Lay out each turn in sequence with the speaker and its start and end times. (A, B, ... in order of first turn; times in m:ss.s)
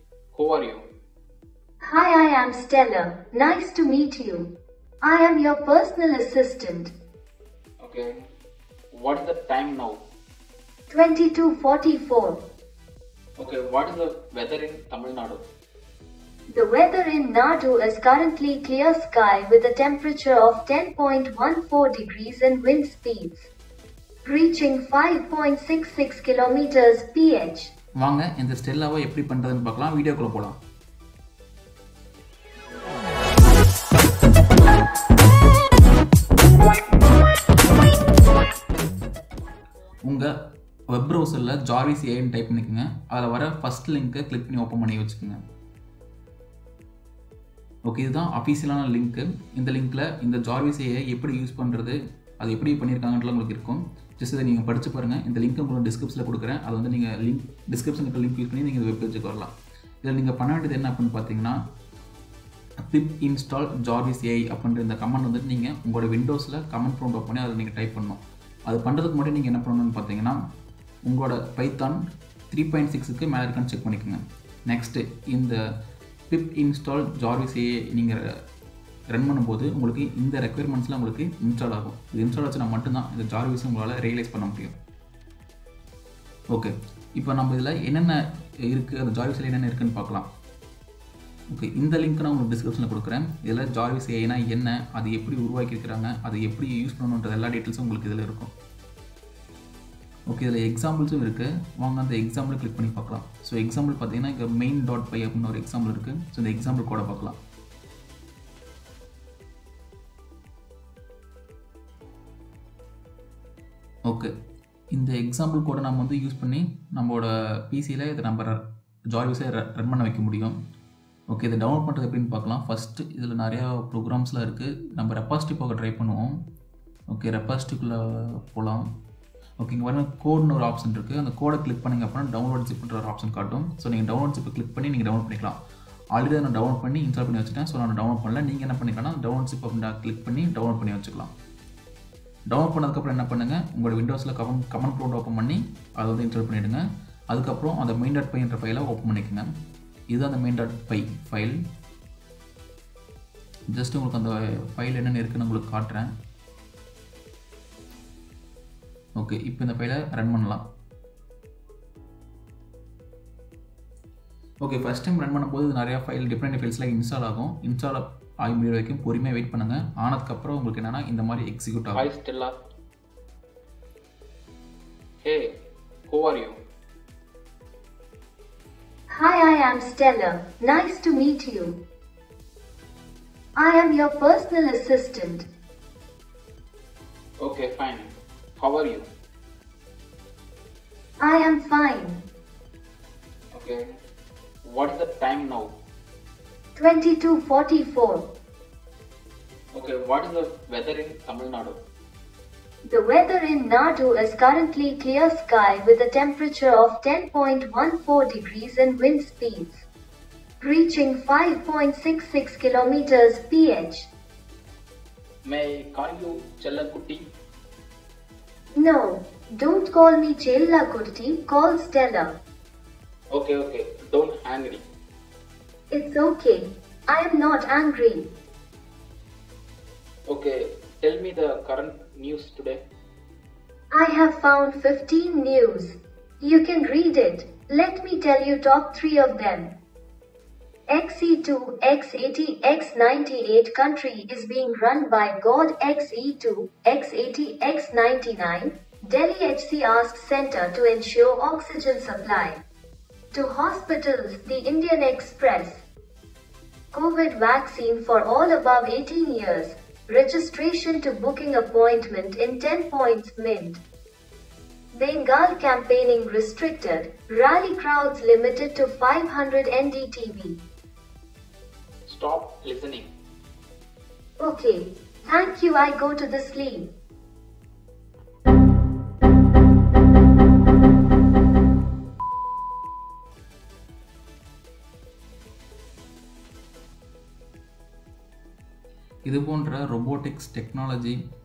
0:00.3-0:00.8 A
0:01.8-0:06.9 B
0:07.8-0:08.2 A
0:08.9-0:10.0 A
0:10.9-0:12.4 B
0:13.4-0:15.4 A
0:16.5-0:23.5 B
0:24.2-0:27.7 B
0:28.0-0:30.6 C
0:40.1-0:40.3 C
0:40.9-0:45.4 C
0:47.9-0:59.5 C
1:00.0-1:01.6 C
1:02.9-1:10.4 C
1:11.0-1:12.0 C
1:12.5-1:15.6 C
1:16.3-1:18.2 C
1:19.1-1:24.7 C
1:26.5-1:30.3 C
1:31.5-1:38.5 C
1:40.3-1:47.4 C
1:54.9-1:58.6 C
1:59.1-2:00.5 C
2:01.3-2:06.3 C
2:07.1-2:08.8 C
2:09.6-2:15.6 C
2:16.1-2:21.3 C
2:22.5-2:29.5 C
2:30.1-2:31.6 C
2:33.7-2:36.1 C
2:39.2-2:40.6 C
2:44.6-2:52.1 C
2:51.9-2:52.6 A
2:55.2-2:55.5 A
2:56.1-2:56.6 A
2:59.1-3:01.8 B
3:03.6-3:05.5 B
3:07.4-3:09.1 A
3:11.2-3:12.3 B
3:13.5-3:13.9 A
3:14.6-3:15.8 A
3:16.8-3:18.3 B
3:19.7-3:21.8 A
3:22.8-3:29.8 B
3:30.6-3:34.1 B
3:35.4-3:37.3 A
3:38.8-3:42.4 B
3:43.3-3:44.8 A
3:45.9-3:48.3 B
3:50.3-3:52.8 A
3:53.9-3:59.8 B
4:00.9-4:12.6 B
4:13.3-4:15.8 B
4:16.9-4:23.8 B
4:24.9-4:30.6 B
4:32.0-4:33.1 A
4:34.4-4:36.9 B
4:49.2-4:51.2 C